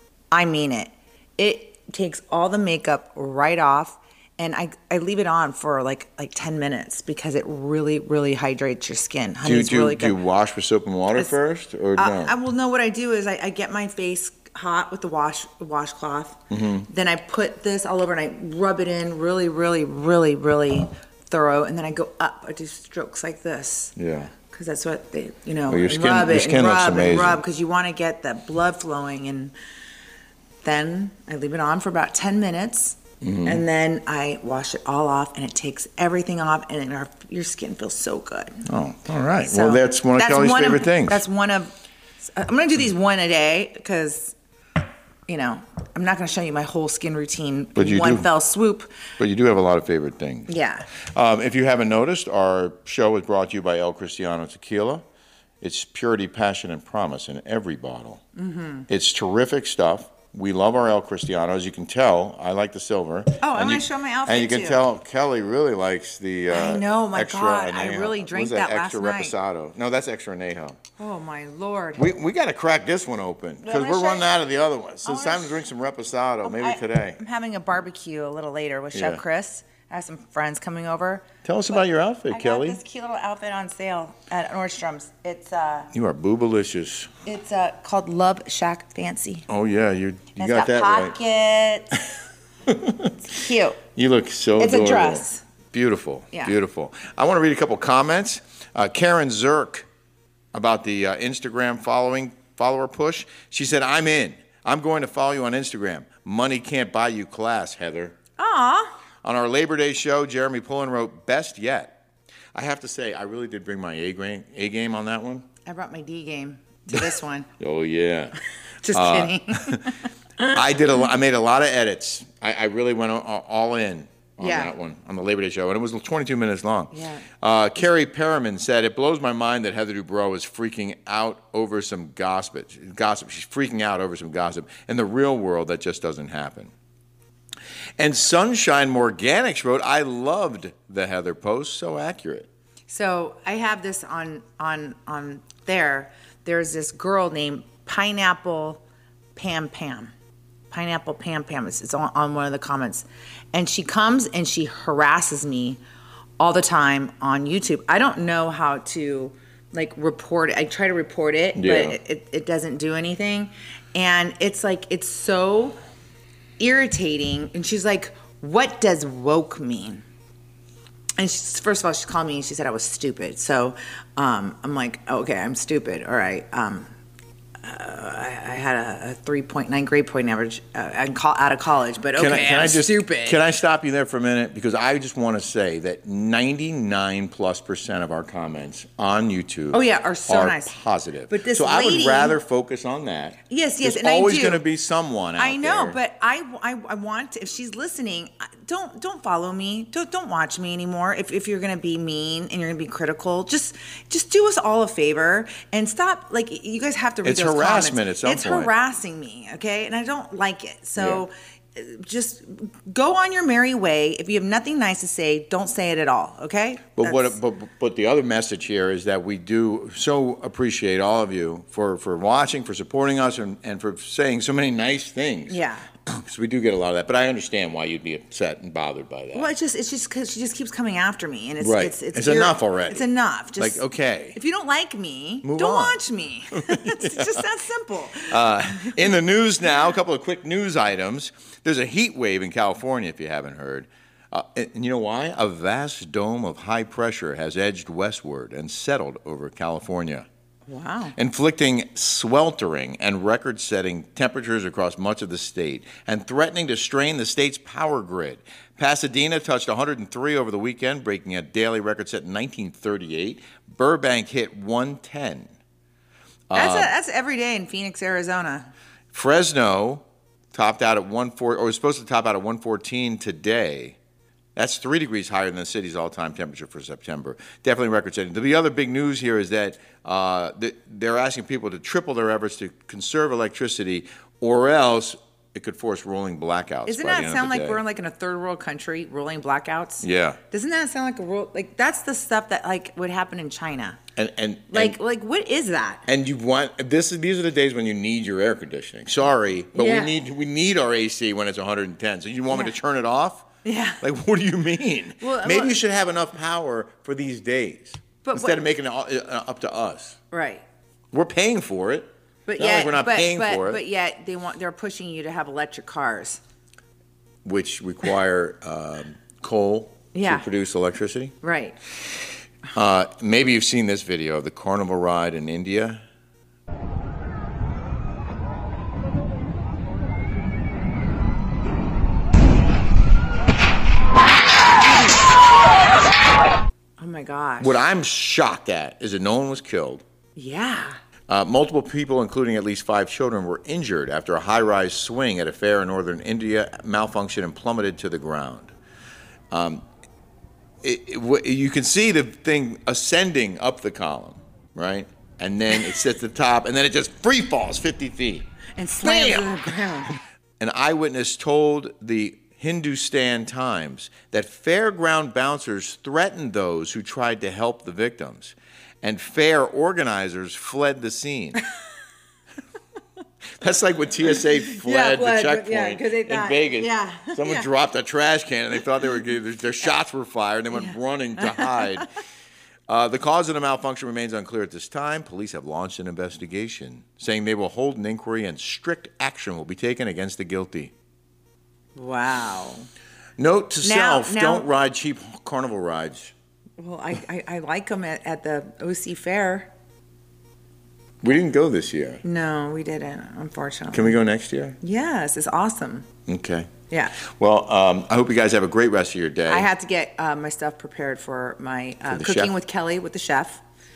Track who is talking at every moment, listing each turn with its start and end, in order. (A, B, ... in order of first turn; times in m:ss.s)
0:00.3-0:10.2 A
0:09.4-0:12.3 B
0:12.0-0:23.9 A
0:16.5-0:16.9 B
0:24.0-0:24.3 B
0:24.5-0:29.5 A
0:25.7-0:27.4 B
0:30.6-0:38.6 A
0:33.2-0:33.6 B
0:38.6-0:41.2 B
0:39.4-0:44.4 A
0:45.3-0:48.9 A
0:47.8-0:48.3 B
0:49.2-0:50.5 B
0:50.5-0:50.9 A
0:51.0-0:55.0 B
0:55.6-0:58.2 B
0:58.4-0:58.9 A
0:58.9-1:10.8 B
1:03.4-1:04.8 A
1:06.5-1:09.4 A
1:11.0-1:12.1 A
1:12.0-1:17.2 B
1:13.6-1:14.3 A
1:15.0-1:15.6 A
1:16.4-1:25.9 A
1:18.9-1:19.2 B
1:21.4-1:22.8 B
1:25.9-1:27.1 B
1:27.3-1:29.5 A
1:29.5-1:31.1 B
1:30.4-1:32.0 A
1:32.7-1:33.2 B
1:33.2-1:33.8 A
1:34.0-1:39.9 B
1:34.6-1:35.4 A
1:40.5-1:48.2 B
1:48.4-1:49.0 A
1:49.2-1:52.0 B
1:52.6-1:55.4 B
1:55.7-1:57.5 A
1:57.6-1:58.4 B
1:58.8-2:00.6 A
1:58.9-1:59.9 B
2:00.5-2:16.7 B
2:04.4-2:04.7 A
2:06.9-2:07.3 A
2:18.0-2:22.5 B
2:22.9-2:28.8 A
2:29.4-2:30.1 A
2:30.7-2:35.8 A
2:36.4-2:45.8 A
2:41.6-2:42.0 B
2:46.6-2:50.0 A
2:51.2-2:56.9 A
2:57.6-3:03.4 A
3:02.2-3:16.0 B
3:09.7-3:10.7 A
3:11.3-3:12.4 A
3:13.5-3:14.6 A
3:15.4-3:37.4 A
3:27.2-3:28.7 B
3:31.0-3:31.2 B
3:37.0-3:49.5 B
3:45.5-3:45.9 A
3:49.3-3:53.8 A
3:51.6-3:53.0 B
3:53.6-3:54.4 B
3:54.4-3:59.1 A
3:55.4-3:56.0 B
3:56.7-3:57.3 B
3:58.2-4:10.3 B
4:10.7-4:11.2 A
4:11.2-4:25.5 B
4:26.5-4:26.9 B
4:26.5-4:28.7 A
4:29.1-4:34.0 B
4:34.6-4:47.8 B
4:46.9-4:54.0 A
4:50.0-4:50.4 B
4:54.2-4:55.0 B
4:54.7-4:56.0 A
4:56.1-5:03.4 B
4:59.8-5:00.2 A
5:03.6-5:04.0 A
5:04.0-5:10.2 B
5:05.2-5:05.8 A
5:08.2-5:08.6 A
5:10.3-5:10.6 A
5:11.1-5:13.8 B
5:12.5-5:16.4 A
5:17.4-5:21.3 B
5:20.1-5:20.5 A
5:21.4-5:21.8 A
5:22.7-5:26.0 B
5:37.0-5:37.8 A
5:37.6-5:40.0 B
5:40.4-5:41.0 A
5:41.3-5:48.7 B
5:49.5-5:49.8 B
5:50.8-5:58.5 B
5:58.8-6:00.1 A
5:59.0-6:11.6 B
6:13.6-6:22.1 B
6:14.3-6:17.7 A
6:20.7-6:22.1 A
6:22.9-6:30.9 B
6:32.0-6:32.9 A
6:33.4-6:36.3 B
6:33.8-6:34.7 A
6:36.8-6:39.7 A
6:41.2-6:42.2 B
6:42.2-6:44.2 A
6:43.9-6:44.8 B
6:44.8-6:46.1 A
6:46.3-6:49.7 B
6:46.9-6:47.2 A
6:49.5-6:53.6 A
6:52.1-6:52.5 B